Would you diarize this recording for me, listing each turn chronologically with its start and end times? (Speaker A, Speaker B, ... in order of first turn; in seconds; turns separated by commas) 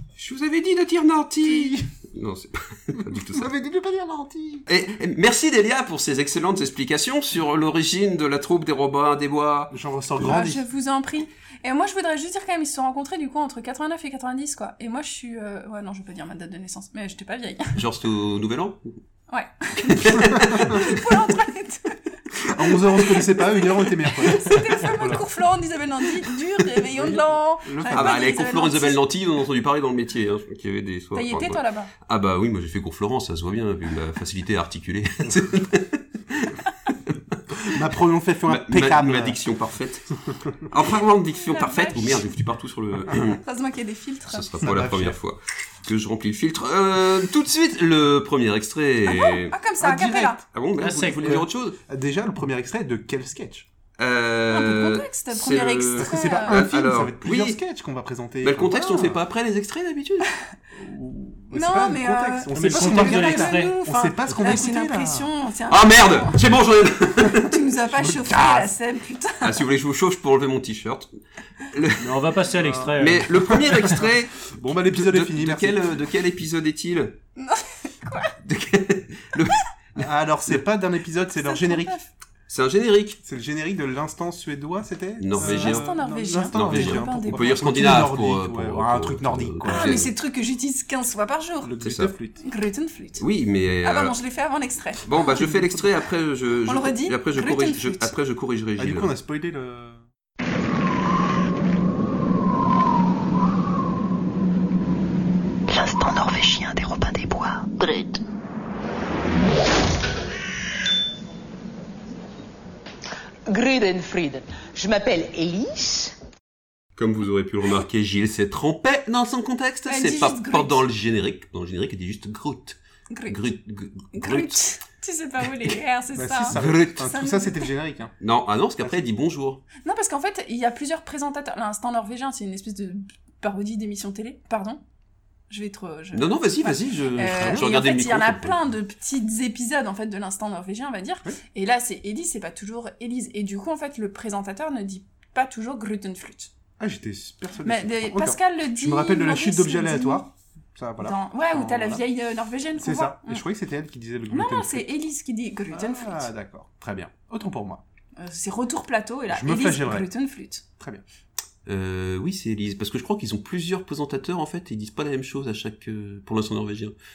Speaker A: 0.2-3.5, Speaker B: 3.3-4.7, Speaker A: 4.7-9.7, Speaker B: 9.7-10.6, Speaker C: 10.2-17.8, Speaker A: 17.8-19.0, Speaker C: 19.3-22.0, Speaker A: 19.9-20.9, Speaker B: 22.4-25.2, Speaker C: 22.6-29.0, Speaker B: 26.8-28.2, Speaker A: 27.9-37.3, Speaker C: 31.1-31.9, Speaker B: 37.7-39.4, Speaker A: 38.5-40.1, Speaker A: 40.7-43.4, Speaker C: 41.3-42.2, Speaker C: 43.4-44.5, Speaker A: 44.3-49.5, Speaker B: 44.6-45.2, Speaker C: 49.1-50.4, Speaker B: 49.8-50.4, Speaker A: 50.5-51.8, Speaker D: 50.8-51.5, Speaker B: 51.9-53.7, Speaker A: 54.0-57.6, Speaker C: 54.5-56.6, Speaker B: 56.0-59.2, Speaker A: 58.4-60.3, Speaker B: 60.7-65.3, Speaker C: 61.5-66.4, Speaker D: 62.5-63.7, Speaker A: 65.7-67.5, Speaker C: 67.3-69.6, Speaker B: 67.9-68.7, Speaker A: 69.4-71.1, Speaker A: 71.7-72.2, Speaker D: 72.0-73.3, Speaker B: 72.5-75.9, Speaker A: 72.9-77.2, Speaker C: 77.3-78.3, Speaker A: 78.4-80.0, Speaker B: 80.0-82.0, Speaker C: 81.3-82.1, Speaker A: 82.5-83.2, Speaker B: 83.2-90.0, Speaker A: 85.2-85.9, Speaker C: 85.4-87.8, Speaker A: 86.5-90.1, Speaker C: 89.7-91.7, Speaker B: 91.6-92.4, Speaker A: 91.8-92.1, Speaker C: 92.4-93.2, Speaker A: 93.2-94.2, Speaker C: 93.8-95.1, Speaker A: 95.0-99.1, Speaker B: 95.3-95.9, Speaker C: 96.7-98.1, Speaker B: 98.8-100.0, Speaker E: 105.7-108.2, Speaker E: 113.5-116.1, Speaker A: 117.0-124.6, Speaker C: 119.9-120.8, Speaker C: 123.1-123.4, Speaker C: 124.1-127.7, Speaker B: 126.1-128.1, Speaker A: 126.5-127.0, Speaker A: 128.2-129.6, Speaker C: 129.8-134.8, Speaker C: 135.5-146.5, Speaker A: 136.1-138.6, Speaker B: 137.3-137.6, Speaker B: 146.8-152.0, Speaker C: 147.6-150.2, Speaker C: 151.0-153.4, Speaker B: 152.8-154.9, Speaker C: 154.3-156.3, Speaker B: 155.7-157.8, Speaker C: 158.2-160.6, Speaker B: 159.3-160.1, Speaker B: 160.8-161.0, Speaker A: 161.7-166.9